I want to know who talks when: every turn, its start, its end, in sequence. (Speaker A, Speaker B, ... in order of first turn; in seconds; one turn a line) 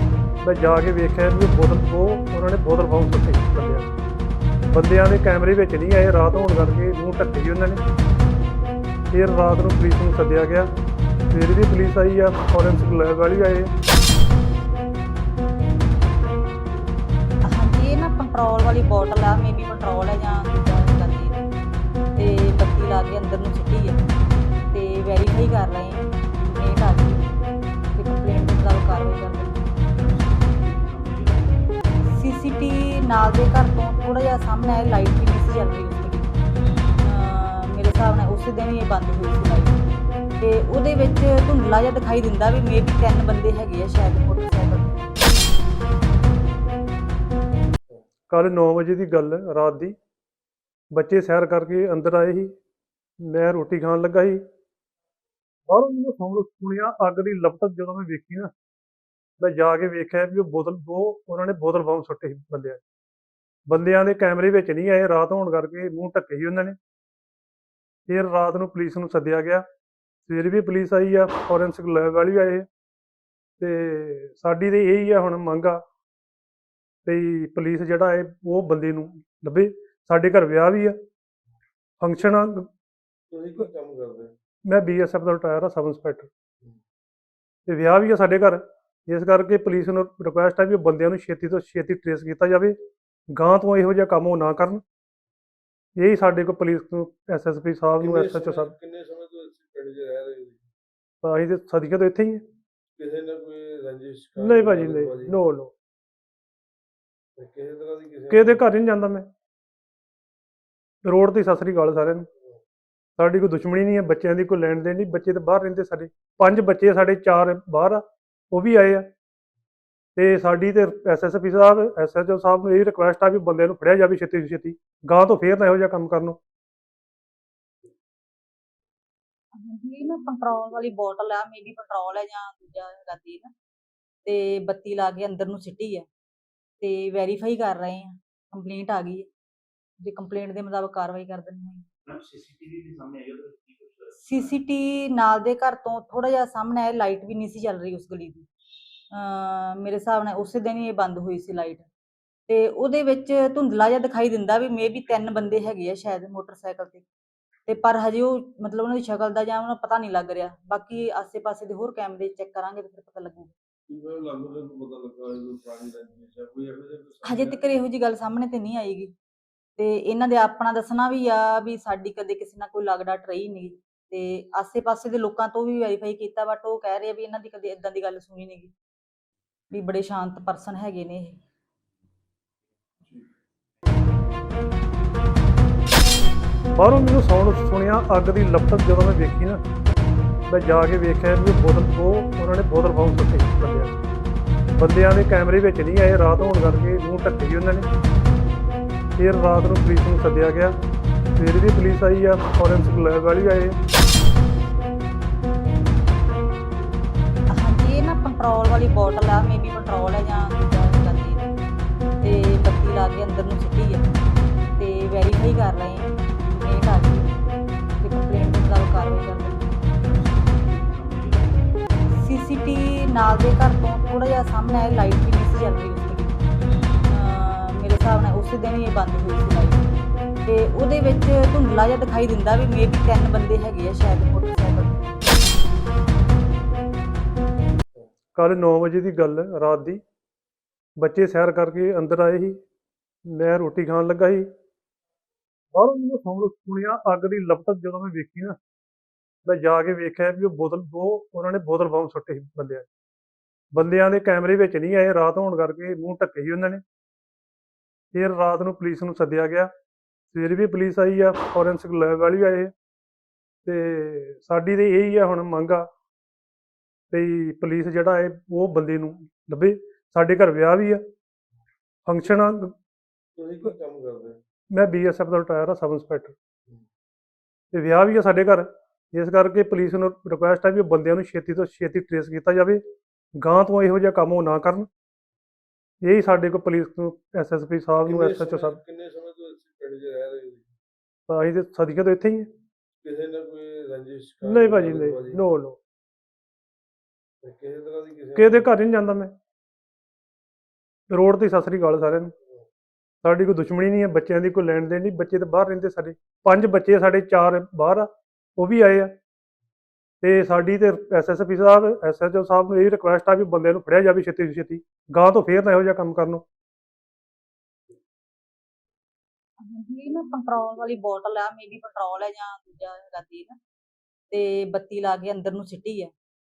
Speaker A: 0.4-3.9
Speaker A: 4.7-7.8
Speaker A: 9.1-10.7
Speaker A: 11.3-13.7
Speaker B: 17.5-21.4
Speaker B: 22.2-24.0
Speaker B: 24.7-27.2
Speaker B: 27.9-29.7
Speaker C: 30.0-32.0
Speaker B: 32.0-36.4
Speaker B: 37.0-39.8
Speaker B: 40.4-45.2
Speaker A: 48.3-50.0
Speaker A: 50.9-52.5
Speaker A: 53.2-54.4
Speaker A: 55.7-58.5
Speaker A: 59.4-62.8
Speaker A: 63.7-66.8
Speaker A: 68.1-69.6
Speaker A: 70.3-72.7
Speaker A: 73.6-75.8
Speaker A: 77.0-81.0
Speaker A: 82.0-82.7
Speaker D: 83.3-84.3
Speaker A: 84.7-86.3
Speaker A: 87.7-92.8
Speaker A: 93.3-94.8
Speaker A: 96.0-98.7
Speaker D: 98.0-100.7
Speaker A: 101.2-102.4
Speaker D: 103.0-105.4
Speaker A: 104.4-105.7
Speaker D: 107.4-108.6
Speaker A: 108.3-109.3
Speaker A: 111.0-112.3
Speaker A: 113.2-119.1
Speaker A: 120.2-126.4
Speaker B: 129.6-133.5
Speaker B: 134.2-136.1
Speaker B: 136.8-139.3
Speaker B: 140.0-141.9
Speaker C: 142.1-144.5
Speaker B: 144.2-148.5
Speaker B: 149.1-151.9
Speaker B: 152.5-157.0
Speaker B: 157.7-163.5
Speaker D: 163.9-167.7
Speaker B: 167.2-169.1
Speaker B: 169.8-178.7
Speaker B: 179.7-181.4
Speaker A: 186.8-189.6
Speaker A: 190.5-194.0
Speaker A: 194.8-197.9
Speaker A: 199.2-200.8
Speaker A: 201.4-203.8
Speaker B: 207.5-211.5
Speaker B: 212.2-214.1
Speaker B: 214.8-217.2
Speaker B: 218.0-219.9
Speaker C: 220.0-222.0
Speaker B: 222.1-226.4
Speaker B: 227.1-229.8
Speaker B: 230.4-235.1
Speaker A: 238.3-240.0
Speaker A: 241.0-242.6
Speaker A: 243.3-244.4
Speaker A: 245.7-248.6
Speaker A: 249.4-252.9
Speaker A: 253.7-256.8
Speaker A: 258.1-259.7
Speaker A: 260.3-262.7
Speaker A: 263.6-265.9
Speaker A: 267.1-271.0
Speaker A: 272.1-272.7
Speaker D: 273.4-274.4
Speaker A: 274.7-276.4
Speaker A: 277.7-282.8
Speaker A: 283.4-284.9
Speaker A: 286.0-288.8
Speaker D: 288.1-290.8
Speaker A: 291.3-292.5
Speaker D: 293.0-295.4
Speaker A: 294.4-295.8
Speaker D: 297.4-298.7
Speaker A: 298.4-299.3
Speaker A: 301.1-302.3
Speaker A: 303.2-309.1
Speaker A: 310.2-316.4
Speaker B: 319.6-323.6
Speaker B: 324.3-326.1